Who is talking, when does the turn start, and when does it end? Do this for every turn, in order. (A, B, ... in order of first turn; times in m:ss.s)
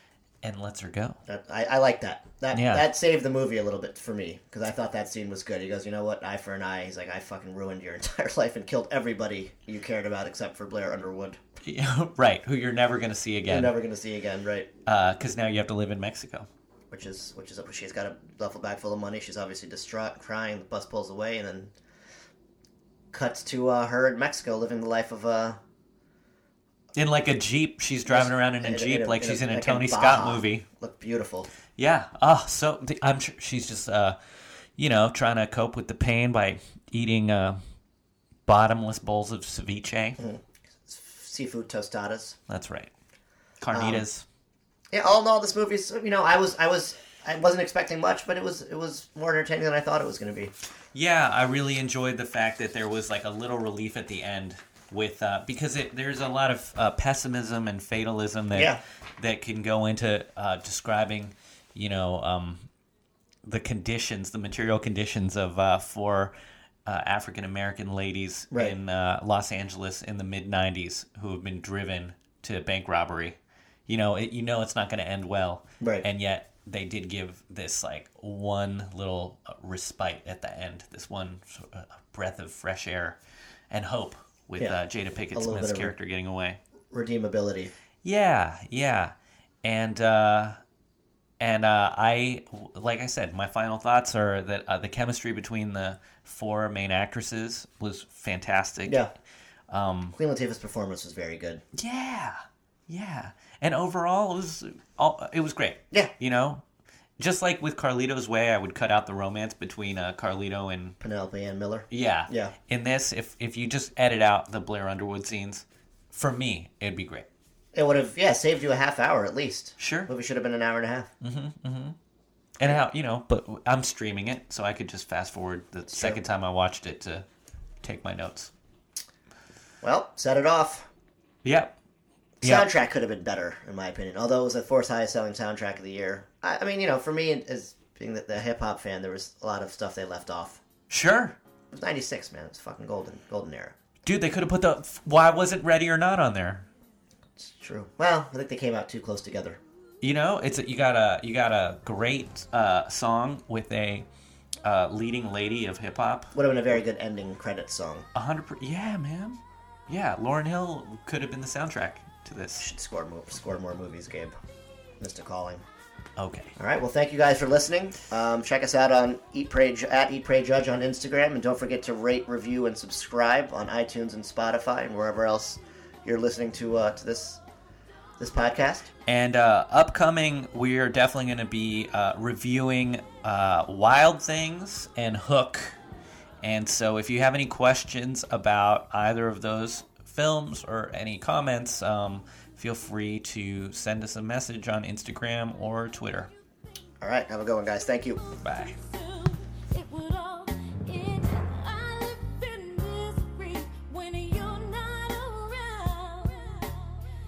0:00.4-0:01.2 A
0:01.3-0:11.4 B
0:02.5-0:02.8 A
0:11.6-0:13.7 A
0:13.5-0:14.7 B
0:14.8-0:16.5 A
0:16.9-0:21.7 B
0:23.1-0:25.6 B
0:26.9-0:30.6 A
0:28.1-0:31.5 B
0:31.8-0:34.2 A
0:34.8-0:37.6 A
0:38.4-0:40.2 A
0:40.2-0:42.4 B
0:42.5-0:42.9 A
0:43.6-0:44.2 A
0:43.7-0:44.0 B
0:44.9-0:50.5 B
0:50.9-1:02.6 A
0:58.5-0:58.8 B
1:03.4-1:06.3 A
1:06.8-1:23.2 A
1:15.8-1:16.0 B
1:23.7-1:26.6 A
1:25.3-1:25.9 B
1:26.9-1:27.7 B
1:28.0-1:30.6 A
1:31.4-1:39.0 A
1:38.8-1:39.1 B
1:39.7-1:40.1 A
1:40.1-1:41.6 B
1:41.7-1:46.6 A
1:47.2-1:51.0 A
1:51.0-1:52.5 B
1:51.9-1:57.3 A
1:57.7-2:01.1 B
1:59.8-2:00.1 A
2:01.2-2:02.0 A
2:02.6-2:07.2 A
2:05.9-2:06.2 B
2:07.8-2:08.5 A
2:09.8-2:10.9 B
2:11.4-2:11.8 A
2:12.4-2:12.7 A
2:12.4-2:20.6 B
2:20.9-2:21.4 A
2:21.7-2:23.7 B
2:24.0-2:26.6 A
2:27.4-2:29.6 B
2:30.0-2:34.1 A
2:34.6-2:36.4 A
2:36.3-2:38.0 B
2:38.1-2:42.7 A
2:42.6-2:44.4 B
2:45.0-2:45.6 B
2:46.2-2:46.5 A
2:46.6-2:57.4 B
2:58.2-2:58.9 B
2:59.0-3:05.8 A
3:06.4-3:16.3 A
3:17.0-3:18.2 B
3:18.1-3:27.0 C
3:18.4-3:18.7 A